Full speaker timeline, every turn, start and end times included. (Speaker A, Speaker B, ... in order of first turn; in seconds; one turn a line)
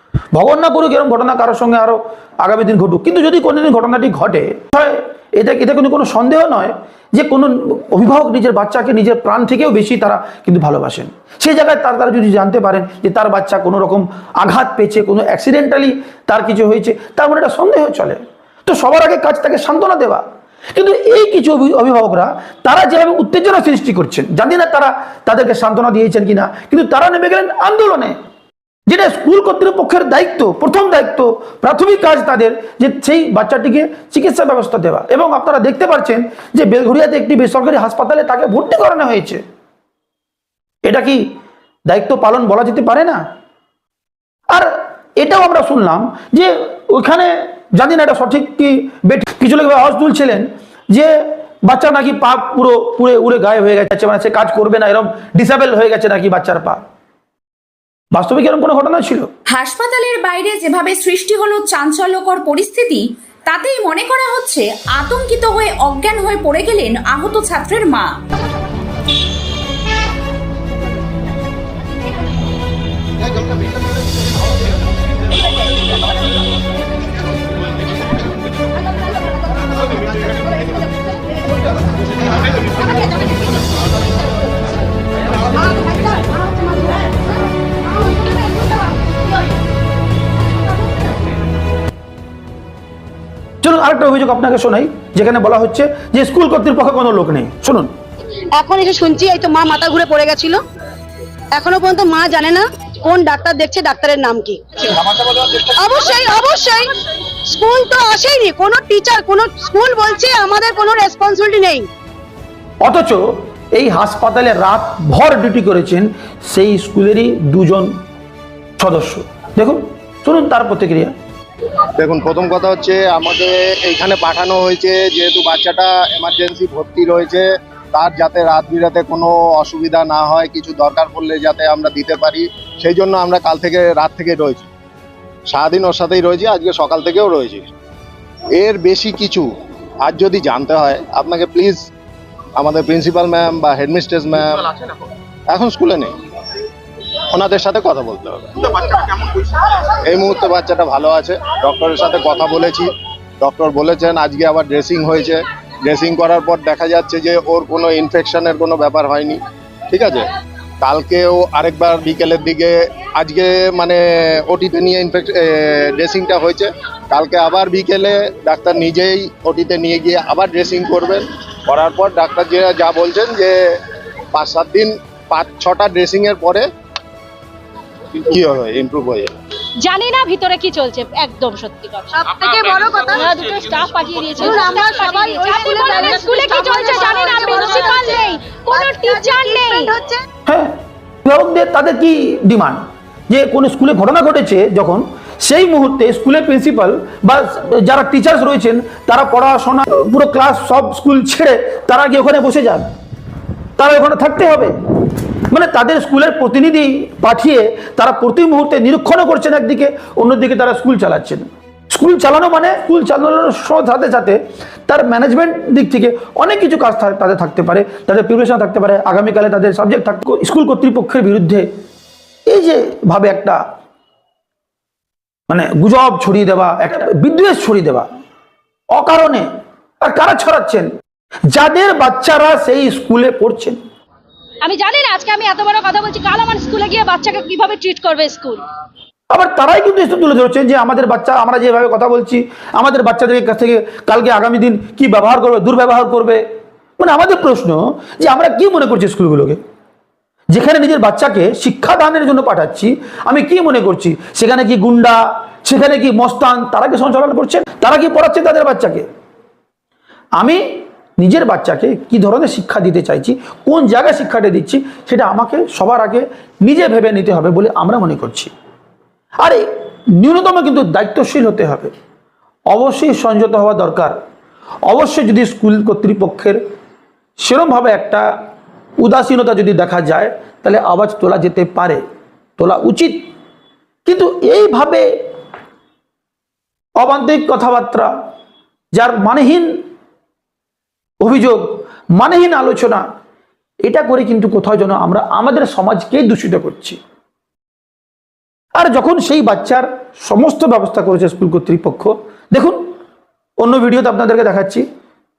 Speaker A: 0.3-28.2
Speaker A: 28.9-39.4
Speaker A: 40.9-41.3
Speaker A: 41.9-43.3
Speaker A: 44.5-56.8
Speaker A: 58.1-59.3
Speaker B: 59.5-68.2
Speaker C: 85.6-86.3
Speaker A: 93.6-97.9
Speaker C: 98.5-100.6
Speaker C: 101.5-104.9
Speaker C: 105.7-106.9
Speaker C: 107.5-111.9
Speaker A: 112.8-118.0
Speaker A: 118.8-121.2
Speaker D: 122.0-134.7
Speaker D: 135.5-137.7
Speaker D: 138.5-141.9
Speaker D: 142.6-144.8
Speaker D: 145.5-146.2
Speaker D: 147.3-149.1
Speaker D: 149.9-160.3
Speaker D: 160.8-173.6
Speaker D: 174.3-176.7
Speaker D: 178.1-179.3
Speaker E: 179.8-182.5
Speaker C: 182.2-183.6
Speaker E: 183.0-189.9
Speaker C: 184.4-190.2
Speaker A: 190.5-202.9
Speaker A: 203.8-204.8
Speaker A: 205.5-221.7
Speaker A: 222.5-223.7
Speaker A: 225.5-228.1
Speaker A: 228.9-229.5
Speaker A: 230.0-230.9
Speaker A: 231.5-233.8
Speaker E: 234.6-238.6
Speaker A: 239.3-246.5
Speaker A: 247.0-249.6
Speaker A: 250.5-259.1
Speaker A: 260.4-268.5
Speaker A: 269.4-271.9
Speaker A: 272.7-274.2
Speaker A: 274.9-276.6
Speaker A: 277.4-278.5
Speaker A: 279.0-282.0
Speaker A: 282.6-283.3
Speaker A: 284.1-285.1
Speaker A: 287.0-288.1
Speaker A: 288.9-289.9
Speaker A: 291.2-293.1
Speaker A: 293.8-297.0
Speaker A: 298.8-303.0
Speaker A: 303.6-304.9